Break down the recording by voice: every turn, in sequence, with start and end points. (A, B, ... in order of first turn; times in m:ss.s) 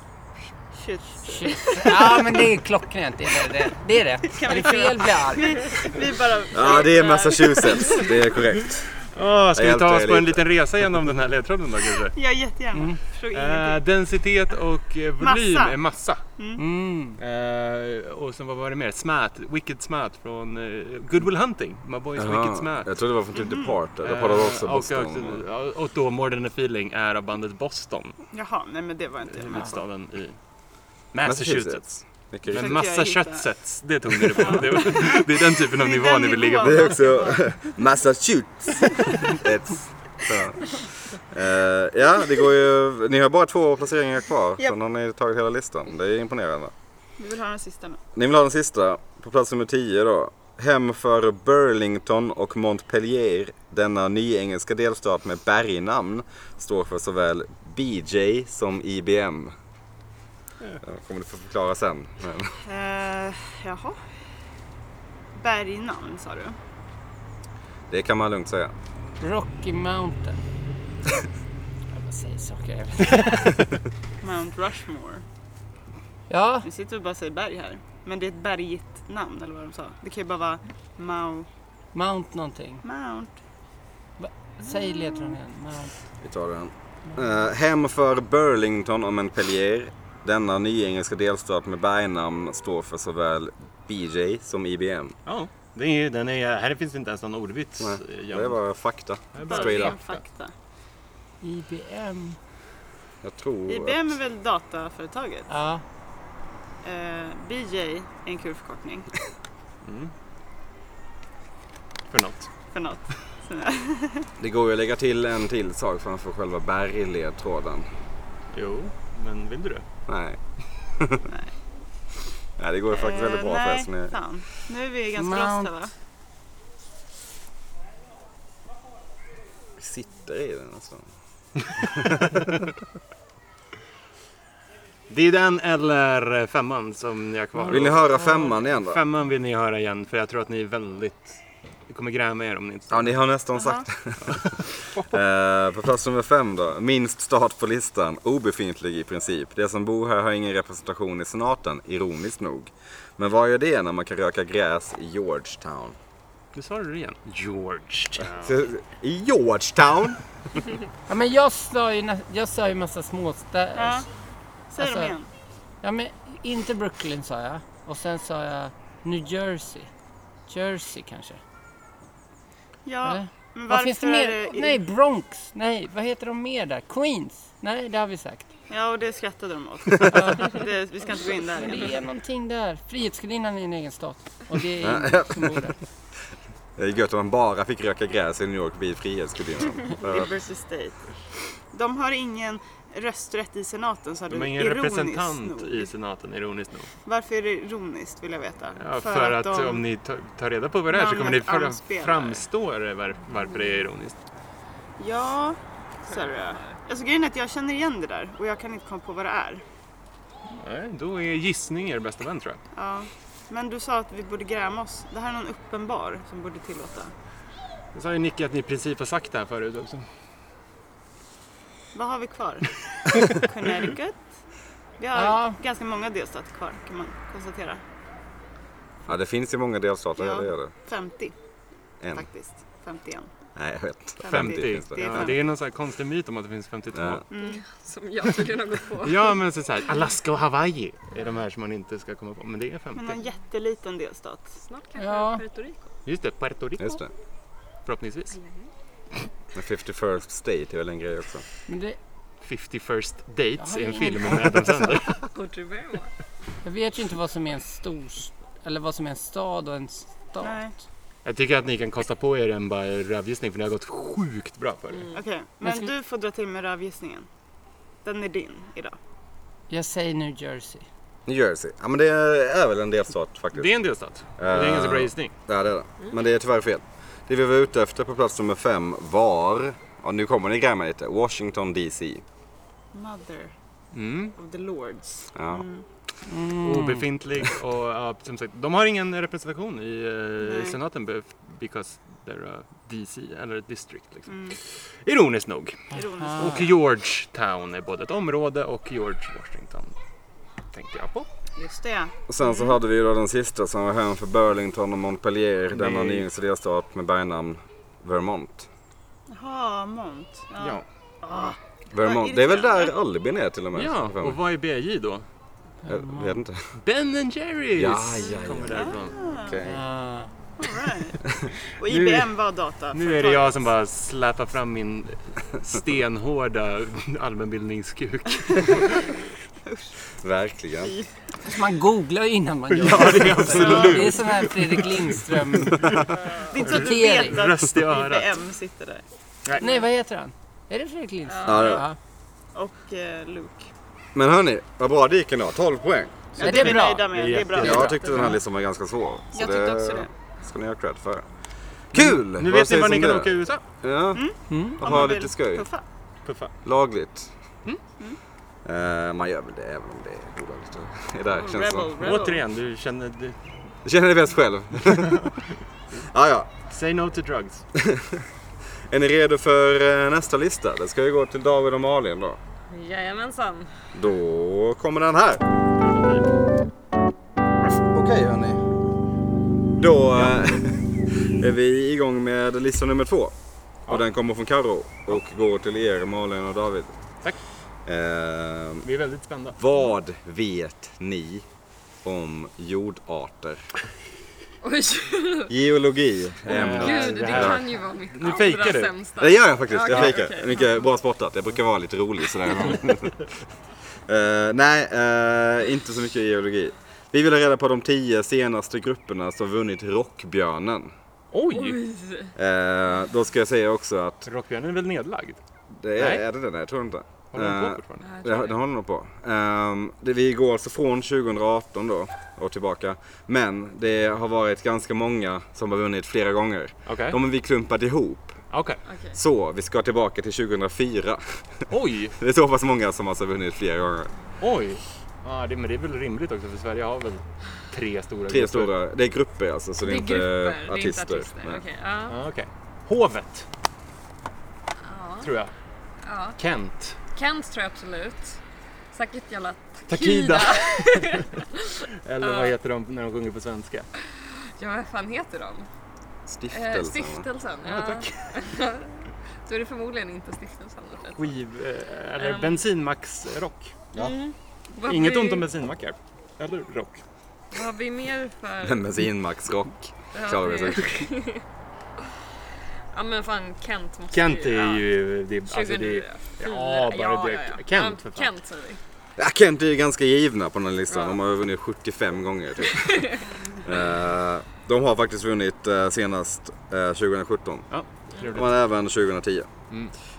0:00.7-0:02.2 A
0:01.2-0:05.7 B
0:04.3-0:08.2 A
0:06.5-0:09.0 C
0:09.0-0:12.2 D
0:09.5-0:10.4 C
0:12.1-0:13.8 A
0:12.7-0:13.0 B
0:13.3-0:16.2 D
0:15.2-0:15.8 A
0:16.4-0:16.6 A
0:16.6-0:17.2 B
0:17.2-0:22.9 D
0:22.2-0:25.4 C
0:23.3-0:23.7 A
0:24.0-0:28.2 D
0:28.3-0:29.8 A
0:29.3-0:30.4 D
0:31.1-0:31.9 D
0:31.2-0:32.8 C
0:32.4-0:37.0 D
0:32.5-0:33.4 A
0:34.3-0:37.5 A
0:36.6-0:46.7 C
0:47.2-0:48.0 A
0:48.1-0:59.5 C
1:00.8-1:02.6 C
1:02.6-1:04.0 A
1:05.3-1:06.6 A
1:07.9-1:08.7 C
1:09.2-1:10.4 B
1:11.9-1:13.6 B
1:14.2-1:15.2 A
1:16.3-1:16.7 B
1:16.6-1:21.5 A
1:21.9-1:22.8 B
1:22.8-1:23.3 A
1:24.2-1:25.9 B
1:26.2-1:35.1 C
1:35.2-1:38.6 D
1:37.8-1:40.0 C
1:39.3-1:40.2 D
1:39.4-1:40.5 A
1:41.4-1:42.4 B
1:43.2-1:44.2 C
1:43.7-1:45.5 A
1:45.5-1:45.8 B
1:46.8-1:49.1 A
1:49.8-1:50.1 D
1:52.1-1:52.5 D
1:52.7-1:54.3 A
1:54.4-1:57.9 C
1:58.5-1:59.8 D
2:00.1-2:00.4 C
2:00.9-2:01.2 C
2:02.6-2:04.2 C
2:02.9-2:05.9 A
2:05.2-2:05.7 B
2:09.8-2:11.0 C
2:11.8-2:12.4 C
2:15.1-2:23.1 D
2:17.7-2:19.0 C
2:22.9-2:36.0 C
2:23.6-2:23.8 A
2:24.2-2:25.0 D
2:36.5-2:38.6 D
2:38.2-2:40.2 C
2:41.1-2:44.0 B
2:43.7-2:44.1 A
2:44.7-2:45.3 A
2:44.8-2:45.2 B
2:45.8-2:49.9 B
2:50.5-2:51.4 B
2:52.8-2:54.8 A
2:53.0-2:58.5 B
2:58.7-3:02.0 A
3:00.1-3:00.6 B
3:01.5-3:05.8 B
3:04.8-3:05.7 C
3:06.8-3:10.3 C
3:10.0-3:11.0 A
3:11.7-3:15.9 A
3:14.3-3:16.9 D
3:17.0-3:19.8 A
3:18.8-3:24.2 D
3:20.9-3:22.5 A
3:25.0-3:29.6 A
3:26.1-3:26.8 E
3:30.5-3:32.6 D
3:32.7-3:37.1 A
3:37.9-3:40.1 D
3:41.9-3:44.2 A
3:45.0-3:47.8 A
3:45.1-3:45.6 B
3:49.1-3:50.7 C
3:50.2-3:51.3 A
3:52.0-3:52.3 C
3:52.1-3:53.3 A
3:53.6-3:55.3 C
3:54.2-3:55.4 A
3:54.3-3:57.2 D
3:56.9-3:57.2 C
3:57.3-3:57.6 A
3:57.3-3:59.3 E
3:59.0-4:03.2 D
4:02.9-4:04.6 A
4:04.6-4:05.9 E
4:05.0-4:05.4 B
4:06.0-4:07.0 D
4:06.8-4:07.1 C
4:07.8-4:08.4 D
4:08.3-4:08.7 E
4:09.5-4:11.4 C
4:11.7-4:12.0 B
4:12.4-4:15.2 D
4:13.6-4:14.9 B
4:15.3-4:16.1 E
4:16.6-4:20.6 B
4:20.4-4:20.7 A
4:21.2-4:25.1 D
4:24.9-4:25.2 E
4:25.1-4:27.3 A
4:25.6-4:25.9 B
4:28.0-4:29.0 A
4:29.7-4:30.8 B
4:31.2-4:33.7 C
4:33.5-4:35.3 D
4:34.4-4:42.2 C
4:42.9-4:43.5 A
4:43.9-4:44.4 D
4:44.4-4:45.8 A
4:45.3-4:45.6 C
4:46.3-4:47.1 B
4:46.6-4:59.9 D
4:50.4-4:50.8 A
4:54.3-4:54.6 A
4:55.9-4:56.7 B
4:55.9-4:56.7 A
5:00.7-5:01.3 D
5:01.6-5:02.7 A
5:02.3-5:08.7 C
5:05.7-5:06.2 D
5:09.3-5:12.9 A
5:10.6-5:10.8 D
5:11.9-5:14.4 C
5:13.7-5:15.2 D
5:15.8-5:16.4 B
5:15.9-5:16.8 C
5:16.8-5:19.2 D
5:17.8-5:19.8 C
5:18.7-5:19.6 A
5:19.6-5:20.3 B
5:20.6-5:21.2 A
5:21.2-5:21.5 C
5:21.8-5:23.6 A
5:21.8-5:22.3 D
5:22.9-5:29.0 D
5:28.6-5:30.0 A
5:30.2-5:30.9 C
5:30.8-5:31.1 A
5:31.4-5:36.1 B
5:32.7-5:35.0 D
5:33.3-5:34.0 C
5:33.5-5:34.2 A
5:35.6-5:36.1 D
5:36.5-5:39.0 A
5:36.6-5:37.4 B
5:36.6-5:38.4 D
5:39.6-5:42.0 B
5:41.3-5:41.8 E
5:41.4-5:41.9 C
5:42.5-5:43.7 A
5:44.1-5:46.4 C
5:46.4-5:48.3 A
5:46.4-5:47.2 B
5:46.5-5:48.0 D
5:47.6-5:51.2 C
5:49.3-5:50.1 A
5:51.9-5:55.7 C
5:51.9-5:53.6 D
5:54.1-5:55.8 A
5:54.5-5:54.8 B
5:56.2-5:56.5 D
5:56.6-5:57.3 C
5:58.6-6:02.1 C
6:01.3-6:02.4 A
6:02.0-6:03.4 D
6:03.8-6:05.3 C
6:04.8-6:05.4 D
6:06.0-6:06.5 C
6:06.7-6:07.6 D
6:07.7-6:08.3 C
6:08.9-6:12.4 C
6:12.7-6:13.7 E
6:13.9-6:15.4 C
6:15.8-6:16.2 D
6:17.6-6:18.8 C
6:19.8-6:23.3 C
6:23.9-6:26.9 C
6:27.8-6:28.8 C
6:28.8-6:29.6 D
6:29.6-6:31.4 C
6:32.0-6:33.7 C
6:34.6-6:35.5 E
6:35.5-6:37.6 C
6:36.5-6:39.0 D
6:36.6-6:40.8 E
6:39.2-6:43.3 C
6:39.8-6:40.2 D
6:44.1-6:50.9 C
6:51.3-6:51.8 D
6:51.5-6:52.3 E
6:52.4-6:54.3 C
6:54.2-6:55.4 D
6:55.7-7:08.4 C
6:56.0-6:56.2 D
6:57.3-6:58.0 D
6:58.0-6:58.6 E
7:06.8-7:07.2 D
7:08.5-7:08.8 D
7:08.8-7:09.2 E
7:09.1-7:14.1 C
7:11.7-7:12.2 D
7:14.4-7:18.7 D
7:18.3-7:21.6 C
7:19.8-7:22.2 E
7:22.1-7:23.5 D
7:24.8-7:25.3 E
7:25.2-7:25.5 D
7:26.0-7:26.4 E
7:26.4-7:27.0 D
7:27.1-7:28.4 E
7:28.9-7:32.5 E
7:29.9-7:31.3 D
7:32.0-7:33.9 D
7:34.1-7:35.7 E
7:36.3-7:37.2 C
7:36.5-7:41.4 E
7:37.6-7:38.5 D
7:41.2-7:43.9 D
7:42.2-7:42.6 E
7:43.9-7:45.5 E
7:44.8-7:47.0 D
7:47.5-7:48.9 E
7:48.6-7:50.9 C
7:50.1-7:51.4 E
7:52.9-7:54.9 E
7:54.1-7:58.3 D
7:55.4-7:58.8 E
7:59.2-8:07.6 C
8:00.9-8:01.2 E
8:02.6-8:03.2 E
8:07.7-8:08.5 D
8:08.3-8:09.5 C